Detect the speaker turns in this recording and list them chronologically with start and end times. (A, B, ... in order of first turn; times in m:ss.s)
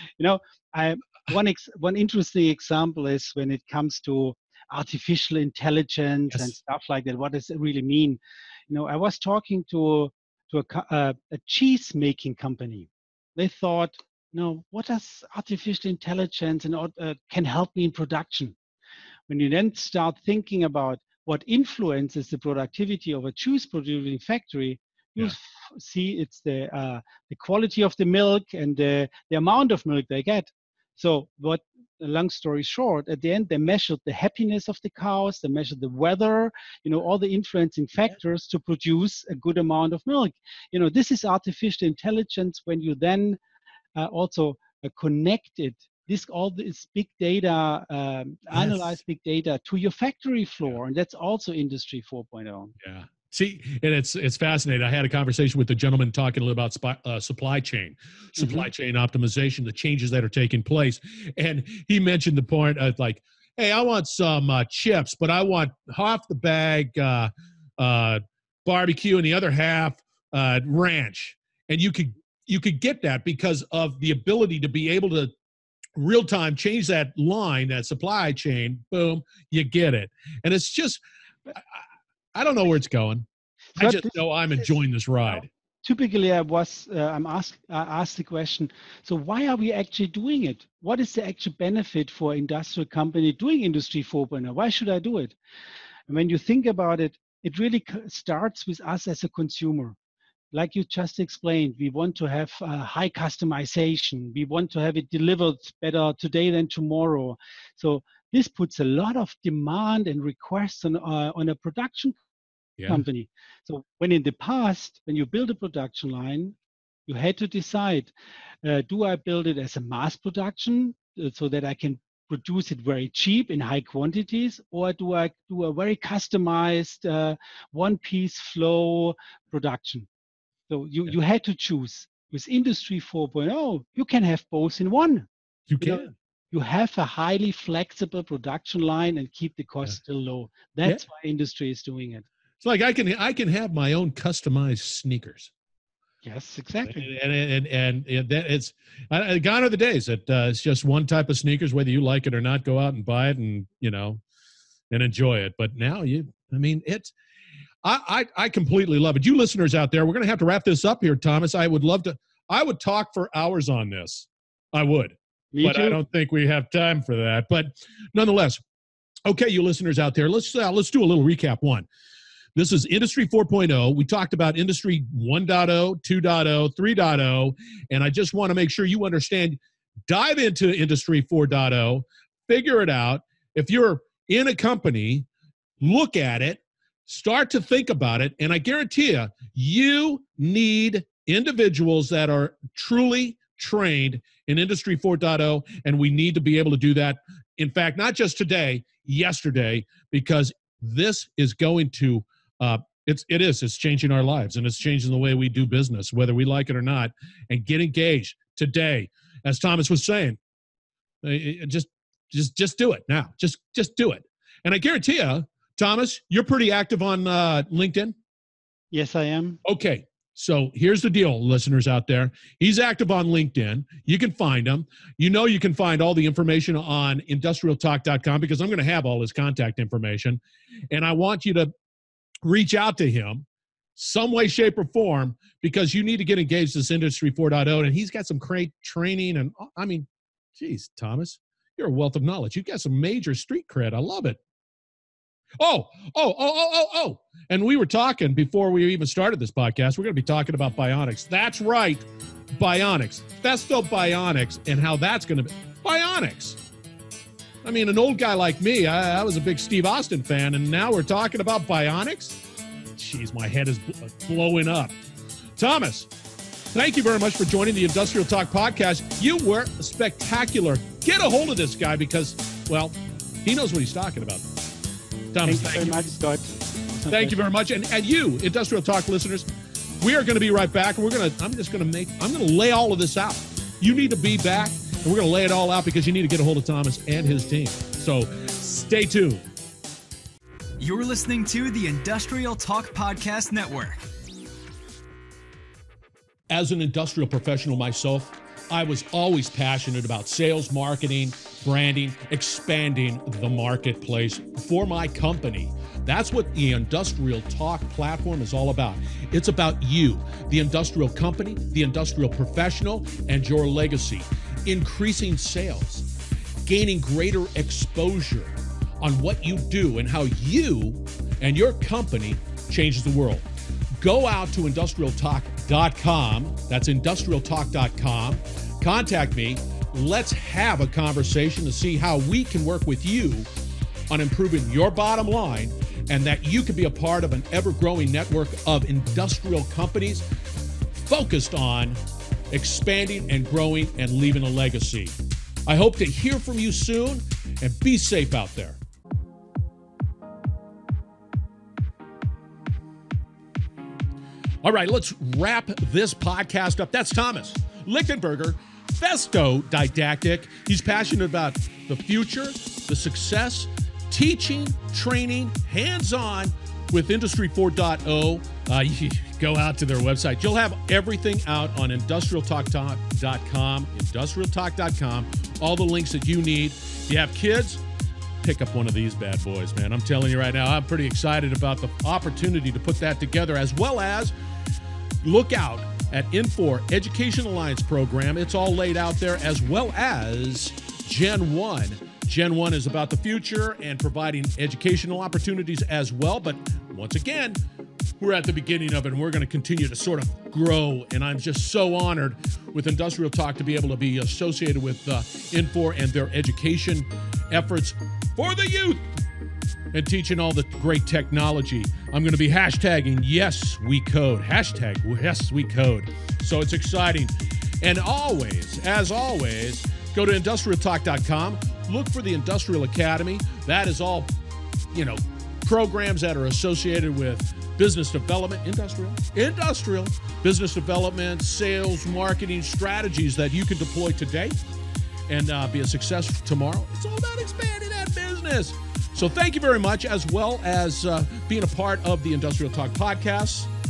0:00.2-0:18.6 A
0:19.3-0:43.4 A
0:44.0-0:52.7 A
0:48.5-0:48.9 B
0:52.8-1:15.3 B
0:58.4-0:58.7 A
1:16.0-1:21.0 B
1:21.6-1:21.8 B
1:22.3-1:25.5 B
1:23.8-1:24.2 A
1:25.3-1:35.3 A
1:36.1-1:40.0 A
1:40.5-1:52.2 A
1:52.8-1:53.0 B
1:52.9-1:56.5 A
1:57.1-1:58.1 A
1:58.6-2:10.1 A
2:10.7-2:22.2 A
2:15.7-2:16.1 B
2:22.6-2:25.5 B
2:26.2-2:27.1 A
2:26.8-2:34.2 B
2:34.9-2:37.1 B
2:37.8-2:48.6 B
2:45.5-2:46.0 A
2:49.2-2:51.9 B
2:52.5-3:05.3 B
3:05.8-3:30.4 B
3:31.2-3:38.1 B
3:38.9-3:39.6 A
3:39.6-3:51.7 B
3:52.4-4:04.4 B
4:05.6-4:16.6 B
4:17.6-4:22.4 B
4:22.9-4:24.9 B
4:25.6-4:26.1 B
4:26.7-4:34.5 B
4:35.3-4:36.0 B
4:35.4-4:37.4 A
4:37.1-4:39.5 B
4:40.0-4:49.5 B
4:50.8-4:54.0 C
4:56.5-5:16.1 B
5:16.6-5:23.4 B
5:24.0-5:33.5 B
5:34.1-5:40.2 B
5:40.9-5:42.0 B
5:42.5-5:48.8 B
5:54.6-6:17.8 B
6:18.4-6:24.3 B
6:25.2-6:37.6 B
6:38.2-6:49.1 B
6:49.9-7:04.3 B
7:04.9-7:14.6 B
7:15.3-7:23.7 B